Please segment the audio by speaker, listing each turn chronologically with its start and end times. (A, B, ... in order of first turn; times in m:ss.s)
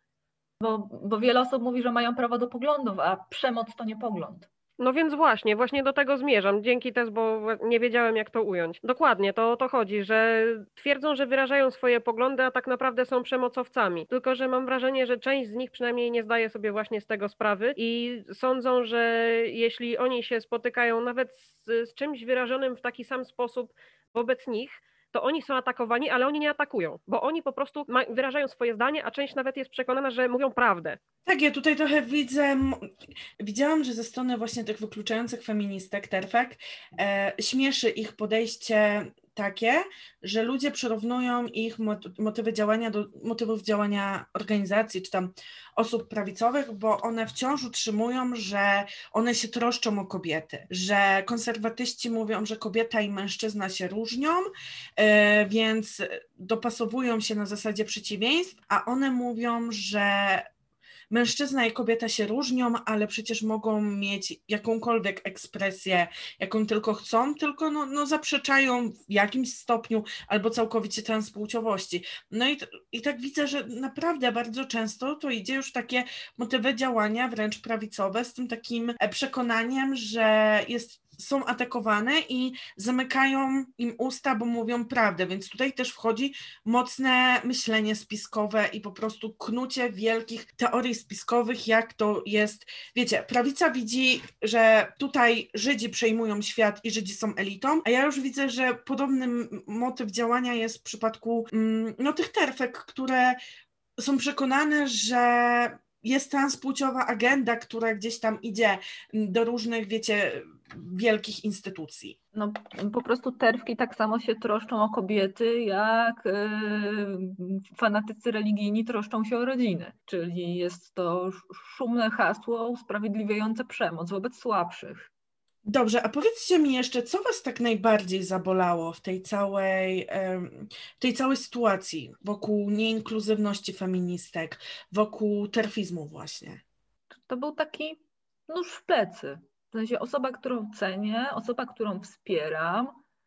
0:00.6-0:04.5 A
0:04.8-0:31.0 B
0:31.3-1:00.5 C
1:01.1-1:43.4 C
1:44.0-1:52.2 C
1:52.3-2:05.1 A
2:05.6-2:16.6 C
2:17.2-2:23.0 A